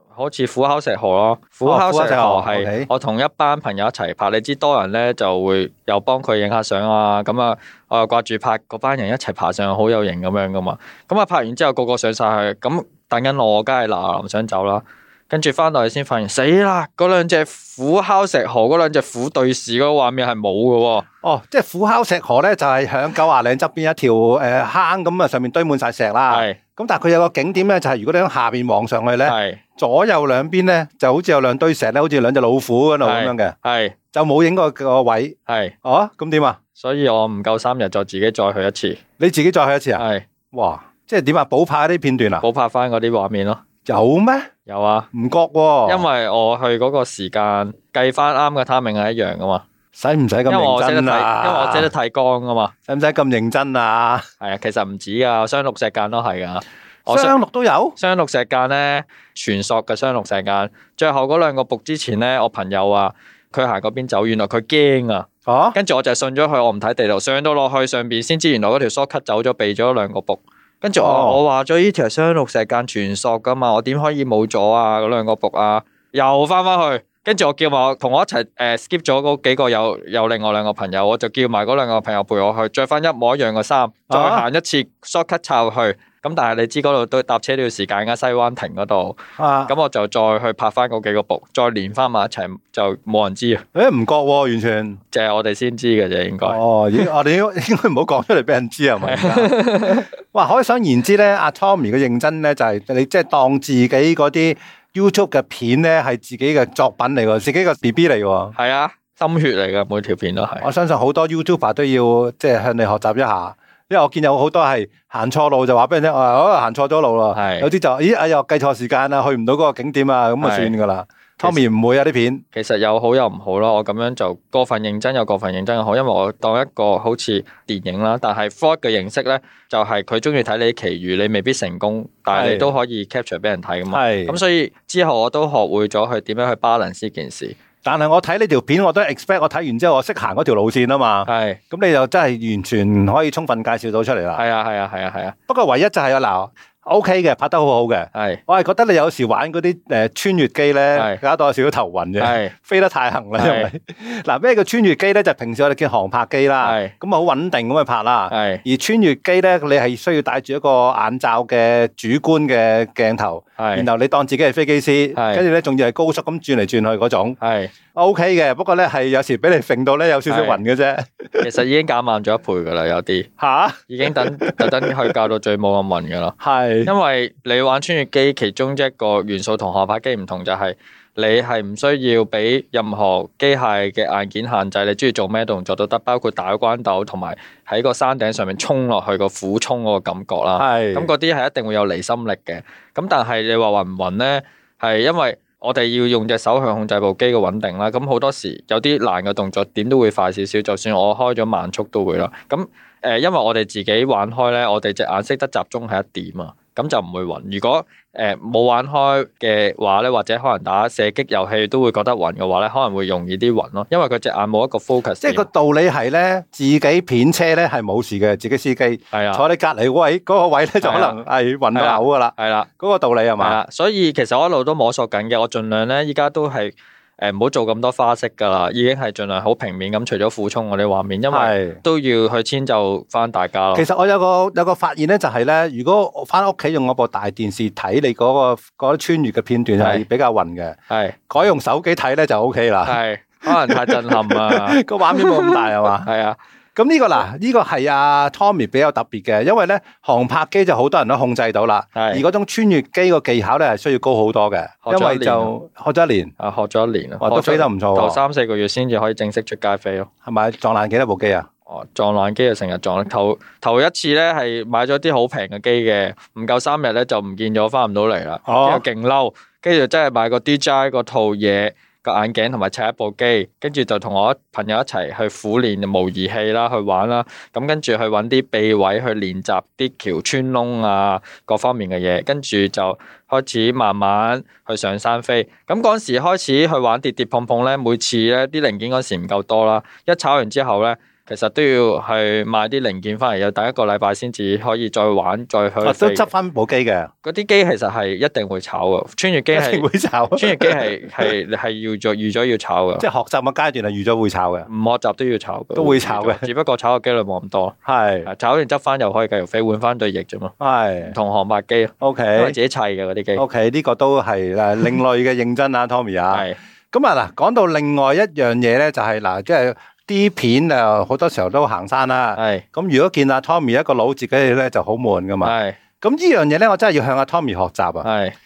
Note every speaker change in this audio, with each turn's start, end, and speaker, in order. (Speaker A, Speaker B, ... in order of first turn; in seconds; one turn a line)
Speaker A: 0.1-21.0
Speaker B: 1.6-2.9
Speaker B: 21.2-33.5
Speaker A: 26.3-26.6
Speaker A: 29.2-29.6
Speaker A: 33.0-34.0
Speaker B: 34.1-36.6
Speaker A: 35.5-35.7
Speaker A: 36.8-39.0
Speaker B: 39.2-42.4
Speaker A: 40.0-40.2
Speaker A: 42.4-43.6
Speaker B: 43.8-44.5
Speaker A: 44.7-45.1
Speaker B: 45.1-46.0
Speaker A: 45.9-49.6
Speaker B: 50.0-51.9
Speaker A: 50.5-52.7
Speaker B: 52.9-54.2
Speaker A: 54.4-57.3
Speaker B: 57.1-58.0
Speaker A: 58.0-93.6
Speaker B: 65.5-65.8
Speaker B: 71.0-71.4
Speaker B: 84.1-84.4
Speaker B: 89.4-89.7
Speaker B: 93.7-95.0
Speaker A: 95.1-97.0
Speaker B: 96.4-108.5
Speaker A: 99.0-100.1
Speaker A: 108.5-110.7
Speaker B: 110.6-122.4
Speaker A: 117.3-117.7
Speaker A: 120.4-120.7
Speaker A: 122.5-137.6
Speaker B: 132.3-132.7
Speaker B: 133.9-134.4
Speaker B: 137.8-144.4
Speaker A: 141.2-141.6
Speaker A: 144.3-145.3
Speaker B: 145.5-167.4
Speaker A: 148.1-148.4
Speaker A: 150.9-151.2
Speaker A: 152.2-152.5
Speaker A: 153.4-153.7
Speaker A: 156.6-156.9
Speaker A: 158.3-158.6
Speaker A: 163.6-163.9
Speaker A: 165.2-165.4
Speaker A: 167.4-167.7
Speaker B: 167.9-171.5
Speaker A: 170.3-170.6
Speaker A: 171.4-173.3
Speaker B: 173.4-175.1
Speaker A: 173.9-215.5
Speaker B: 176.4-176.9
Speaker B: 190.6-191.1
Speaker B: 215.2-223.6
Speaker A: 219.1-219.4
Speaker A: 220.8-221.2
Speaker A: 221.7-222.7
Speaker A: 223.4-233.8
Speaker B: 231.3-231.8
Speaker B: 233.7-240.8
Speaker A: 239.8-240.0
Speaker A: 240.9-241.2
Speaker B: 241.3-246.1
Speaker A: 242.8-246.4
Speaker B: 246.8-256.3
Speaker A: 251.9-252.2
Speaker A: 254.8-255.5
Speaker A: 256.4-260.1
Speaker B: 257.2-258.2
Speaker B: 260.2-261.5
Speaker A: 261.7-296.3
Speaker B: 268.4-268.8
Speaker B: 295.8-297.1
Speaker A: 297.2-303.1
Speaker B: 299.5-301.3
Speaker B: 303.0-304.7
Speaker A: 304.7-310.5
Speaker B: 305.8-306.5
Speaker B: 307.8-308.3
Speaker B: 310.6-311.1
Speaker A: 311.0-313.4
Speaker B: 312.0-312.6
Speaker B: 313.4-328.1
Speaker A: 316.3-316.6
Speaker A: 322.4-322.6
Speaker A: 325.4-325.8
Speaker A: 328.0-328.4